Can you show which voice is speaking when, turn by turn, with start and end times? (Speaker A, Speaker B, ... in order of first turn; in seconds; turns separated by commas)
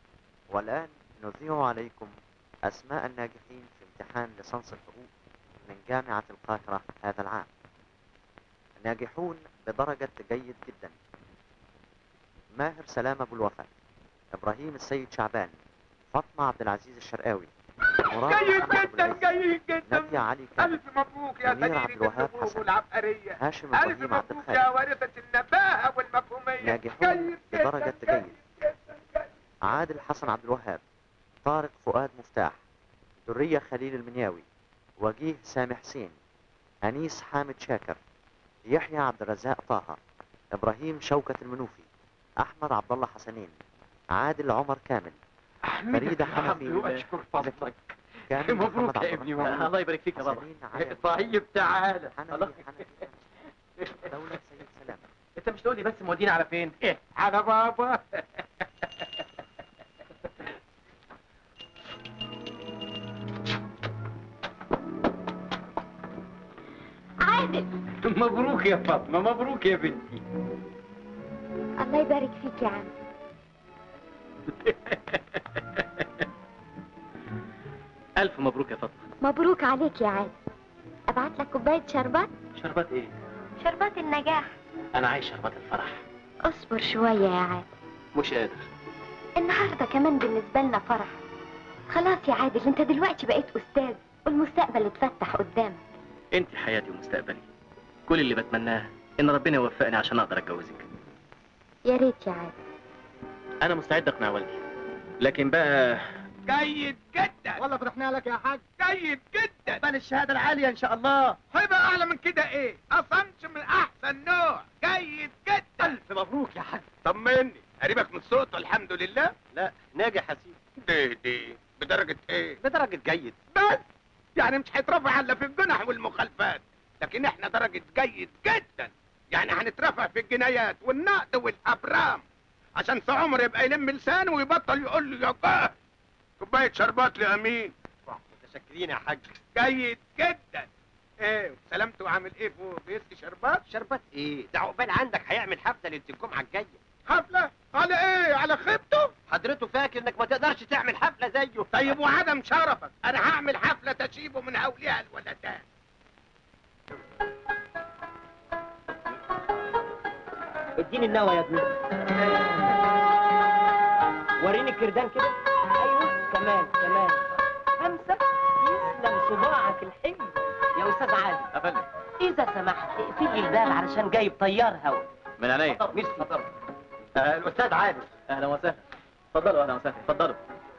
Speaker A: 0.5-5.1, Speaker A: 5.6-7.5, Speaker A: 8.8-10.9, Speaker A: 12.5-13.7, Speaker A: 14.3-15.5, Speaker A: 16.1-17.5, Speaker B: 18.0-29.3, Speaker A: 18.1-19.3, Speaker A: 19.9-20.8, Speaker A: 21.4-22.7, Speaker A: 23.4-24.6, Speaker A: 26.6-28.4, Speaker A: 29.7-30.8, Speaker A: 31.4-32.6, Speaker A: 33.2-34.5, Speaker A: 35.0-36.1, Speaker A: 36.8-38.0, Speaker A: 38.7-40.0, Speaker A: 40.5-41.9, Speaker A: 42.4-43.5, Speaker A: 44.1-45.2, Speaker C: 45.7-52.6, Speaker A: 45.9-47.7, Speaker A: 48.3-51.3, Speaker A: 52.1-53.2, Speaker A: 53.9-55.1, Speaker C: 55.4-57.2, Speaker D: 67.2-67.7, Speaker C: 68.0-70.1, Speaker D: 71.8-72.9, Speaker C: 74.6-75.2, Speaker C: 78.2-79.0, Speaker D: 79.2-80.3, Speaker D: 81.1-82.3, Speaker C: 82.5-83.1, Speaker D: 83.6-84.5, Speaker C: 84.9-86.0, Speaker D: 86.4-87.7, Speaker C: 88.1-88.7, Speaker D: 89.3-91.2, Speaker D: 91.9-95.8, Speaker C: 96.3-97.4, Speaker C: 98.1-100.8, Speaker D: 101.8-102.5, Speaker C: 103.6-104.6, Speaker C: 105.2-106.0, Speaker B: 106.5-107.6, Speaker E: 107.6-108.6, Speaker B: 108.7-109.8, Speaker E: 109.7-111.4, Speaker B: 111.4-116.0, Speaker E: 115.8-116.9, Speaker B: 117.0-119.3, Speaker E: 119.5-120.6, Speaker B: 120.8-122.6, Speaker E: 122.6-123.4, Speaker B: 123.5-123.8, Speaker B: 124.3-132.2, Speaker B: 132.8-135.7, Speaker B: 136.4-137.7, Speaker E: 138.1-139.3, Speaker B: 139.4-140.7, Speaker B: 141.2-143.6, Speaker E: 143.7-146.8, Speaker B: 147.1-149.1, Speaker E: 149.3-151.9, Speaker B: 151.7-155.6, Speaker E: 160.8-161.7, Speaker E: 164.4-167.2, Speaker E: 167.8-171.5, Speaker C: 171.5-171.9, Speaker E: 172.2-175.1, Speaker C: 175.4-176.4, Speaker E: 175.9-176.3, Speaker E: 177.1-178.1, Speaker C: 178.3-178.8, Speaker C: 179.3-180.4